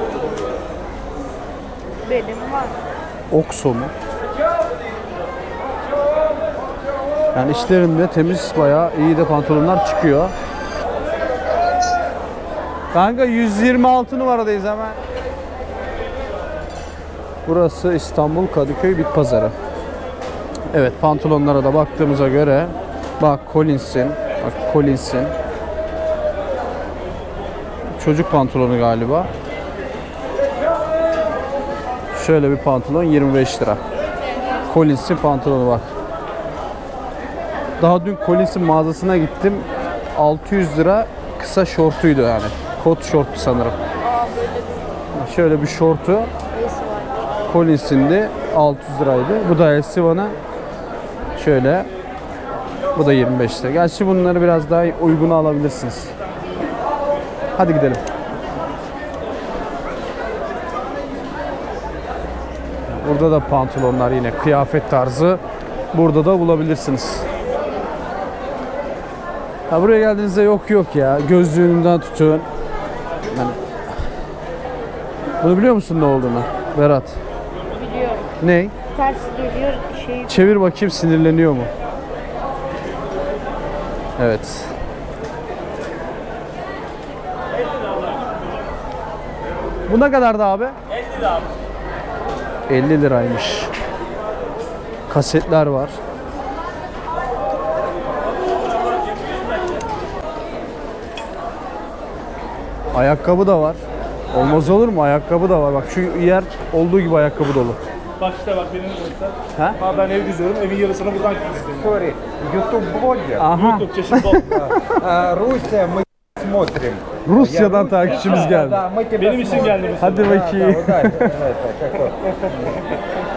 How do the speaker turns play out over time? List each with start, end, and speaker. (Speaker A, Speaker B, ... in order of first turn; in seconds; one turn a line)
Speaker A: 2.1-2.7
Speaker B: 3.3-3.9
Speaker B: 7.3-10.3
Speaker B: 12.9-15.0
Speaker B: 17.4-19.5
Speaker B: 20.7-25.3
Speaker B: 28.0-29.3
Speaker B: 32.1-33.8
Speaker B: 34.7-35.9
Speaker B: 37.8-43.7
Speaker B: 45.1-46.3
Speaker A: 46.7-47.1
Speaker B: 47.5-50.3
Speaker B: 51.4-51.9
Speaker B: 52.9-56.1
Speaker B: 57.6-58.0
Speaker B: 62.9-65.4
Speaker B: 65.9-67.2
Speaker B: 69.7-72.5
Speaker B: 73.3-73.6
Speaker B: 75.4-77.2
Speaker A: 77.9-78.2
Speaker B: 78.4-78.7
Speaker A: 79.0-80.2
Speaker B: 80.2-81.7
Speaker B: 84.2-84.7
Speaker B: 89.9-90.7
Speaker B: 92.7-93.7
Speaker B: 95.1-96.0
Speaker B: 102.9-103.8
Speaker B: 104.3-107.8
Speaker C: 108.2-112.0
Speaker D: 111.8-113.5
Speaker B: 113.4-114.9
Speaker C: 113.5-114.5
Speaker D: 114.4-122.8
Speaker B: 117.2-118.8
Speaker C: 118.1-118.5
Speaker C: 119.2-120.3
Speaker B: 120.0-121.3
Speaker C: 122.7-123.0